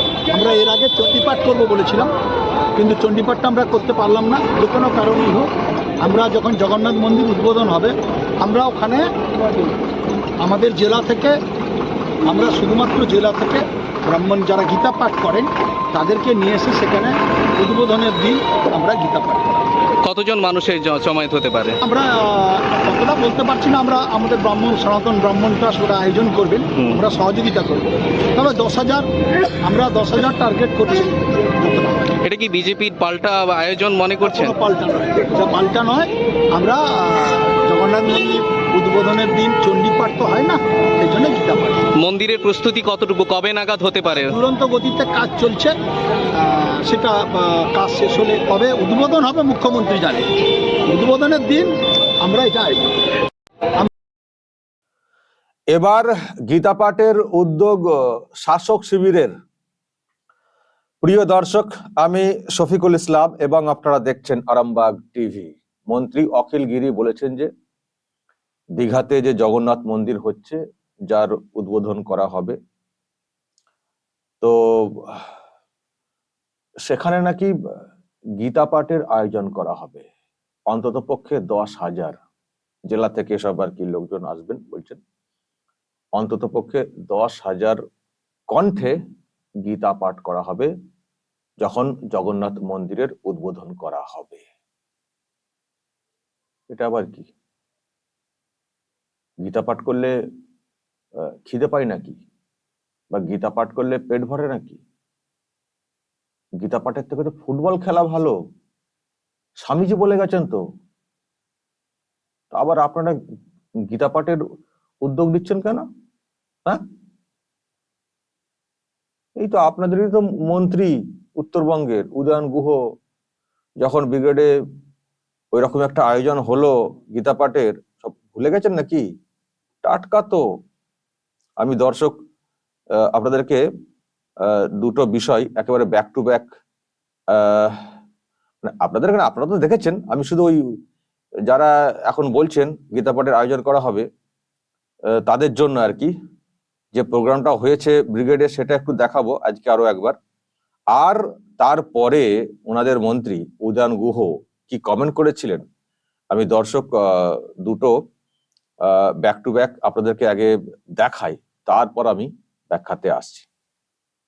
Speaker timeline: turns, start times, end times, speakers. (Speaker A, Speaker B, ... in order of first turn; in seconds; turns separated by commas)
Speaker A: 0.3-2.1, Speaker A: 2.8-5.5, Speaker A: 6.0-9.0, Speaker A: 10.4-11.3, Speaker A: 12.3-19.6, Speaker B: 20.0-21.8, Speaker A: 21.8-29.1, Speaker A: 29.6-32.2, Speaker B: 32.2-34.5, Speaker A: 34.2-41.8, Speaker B: 42.0-44.3, Speaker A: 44.2-45.7, Speaker A: 46.3-50.2, Speaker A: 50.9-51.7, Speaker A: 52.2-52.9, Speaker C: 55.7-59.3, Speaker C: 61.0-67.5, Speaker C: 68.8-70.6, Speaker C: 71.1-72.5, Speaker C: 74.4-75.2, Speaker C: 76.8-77.5, Speaker C: 78.4-80.0, Speaker C: 80.7-82.2, Speaker C: 82.9-85.0, Speaker C: 86.2-87.8, Speaker C: 88.5-88.9, Speaker C: 89.6-90.7, Speaker C: 91.6-94.4, Speaker C: 96.7-97.3, Speaker C: 99.4-100.1, Speaker C: 101.2-102.2, Speaker C: 103.1-104.8, Speaker C: 106.6-108.3, Speaker C: 109.6-110.6, Speaker C: 112.5-113.2, Speaker C: 113.9-114.4, Speaker C: 115.0-115.8, Speaker C: 119.4-122.8, Speaker C: 123.8-124.5, Speaker C: 125.5-129.0, Speaker C: 129.8-130.4, Speaker C: 131.6-132.1, Speaker C: 132.9-133.6, Speaker C: 134.4-136.5, Speaker C: 137.3-137.8, Speaker C: 138.6-140.7, Speaker C: 141.5-144.1, Speaker C: 145.1-146.1, Speaker C: 146.9-150.2, Speaker C: 150.9-155.6, Speaker C: 156.3-157.9, Speaker C: 158.8-163.5